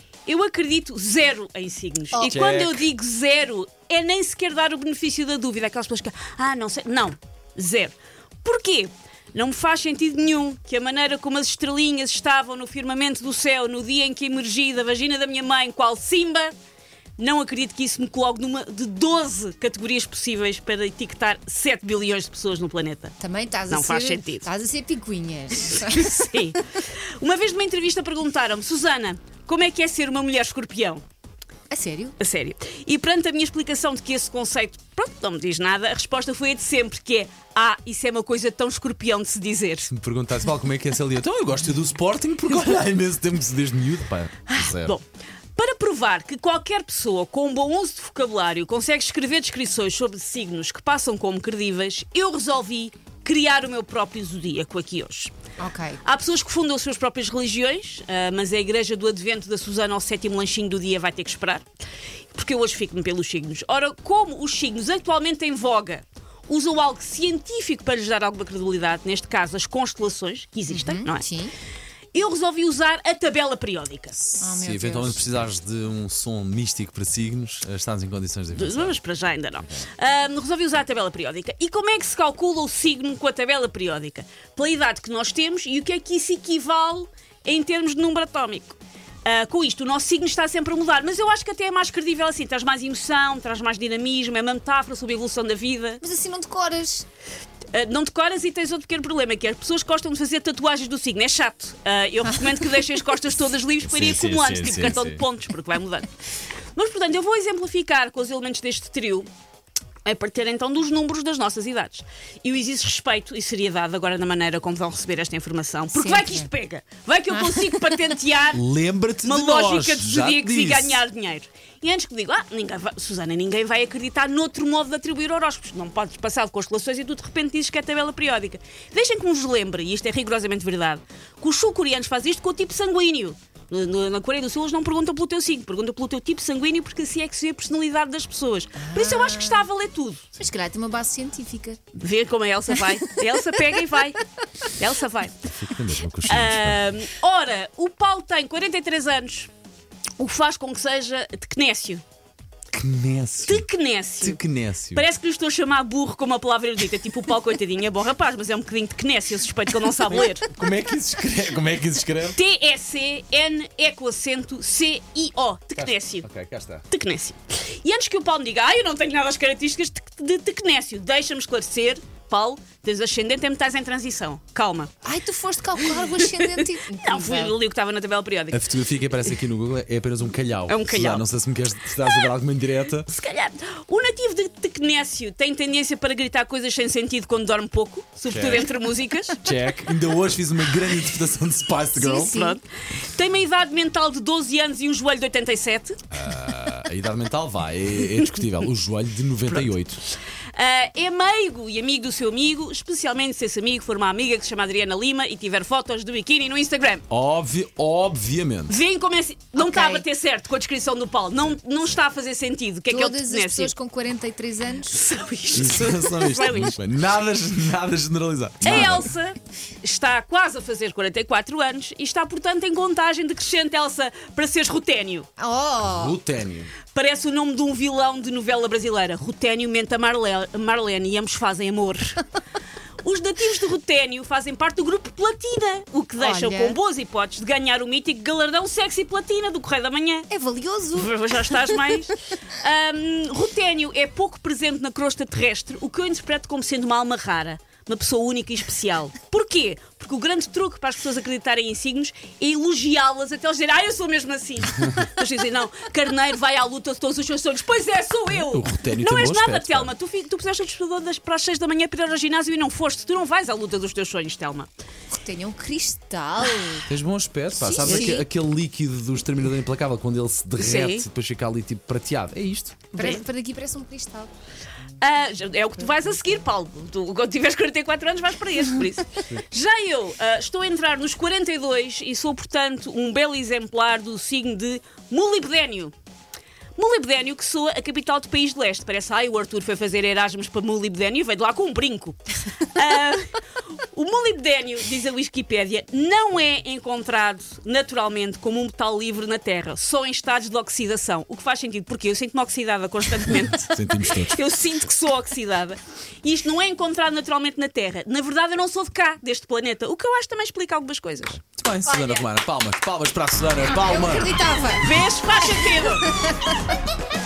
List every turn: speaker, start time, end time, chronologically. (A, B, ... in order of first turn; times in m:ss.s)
0:00.2-0:16.5 A
0:02.2-0:02.9 B
0:17.2-0:23.1 A
0:23.2-0:26.3 C
0:23.7-0:24.5 A
0:25.5-0:31.0 A
0:31.7-0:32.1 C
0:32.2-0:39.9 A
0:39.9-0:45.0 B
0:44.5-0:45.0 A
0:45.6-0:55.3 A
0:55.6-0:56.0 C
0:56.0-1:01.6 A
1:02.3-1:11.2 A
1:10.7-1:11.5 C
1:12.1-1:14.3 A
1:14.2-1:19.0 B
1:14.4-1:15.2 C
1:18.5-1:36.0 A
1:36.0-1:37.0 C
1:37.7-1:46.1 A
1:43.8-1:45.2 B
1:46.8-1:49.3 A
1:50.0-1:58.6 A
1:55.9-1:56.5 C
1:57.3-1:57.8 C
1:58.5-2:01.0 B
1:59.2-2:20.3 A
2:18.8-2:19.6 C
2:20.4-2:21.8 C
2:21.9-2:25.4 A
2:22.9-2:23.4 C
2:25.5-2:26.8 B
2:26.2-2:29.5 A
2:30.2-2:32.0 A
2:32.7-2:33.7 B
2:33.4-2:34.4 A
2:34.2-2:35.1 B
2:34.9-2:40.5 A
2:40.3-2:42.4 B
2:42.3-2:46.2 A
2:45.8-2:46.8 B
2:46.9-2:54.9 A
2:55.0-2:57.5 C
2:55.8-2:58.6 A
2:58.5-3:03.1 B
3:00.7-3:01.2 A
3:02.0-3:02.3 A
3:03.0-3:09.5 A
3:08.3-3:08.6 B
3:09.4-3:12.3 B
3:12.0-3:12.6 C
3:12.0-3:16.0 A
3:16.1-3:20.0 B
3:20.5-3:27.0 A
3:27.1-3:28.8 B
3:28.7-3:33.7 A
3:29.5-3:30.0 C
3:32.9-3:35.0 C
3:34.9-3:36.8 A
3:35.5-3:39.1 B
3:38.6-3:45.3 A
3:45.4-3:46.2 C
3:45.8-3:46.7 B
3:46.9-3:52.2 A
3:53.0-4:00.3 A
3:56.2-3:56.8 C
4:00.3-4:01.8 C
4:00.9-4:24.7 A
4:18.3-4:19.9 B
4:25.1-4:26.9 C
4:26.9-4:32.9 B
4:27.6-4:28.2 C
4:27.8-4:28.2 A
4:30.6-4:31.1 A
4:32.9-4:33.2 A
4:32.9-4:34.3 C
4:35.0-4:45.9 A
4:46.8-5:12.3 A
5:03.5-5:04.4 B
5:11.5-5:14.4 B
5:13.6-5:14.9 C
5:14.8-5:16.1 A
5:15.5-5:16.5 C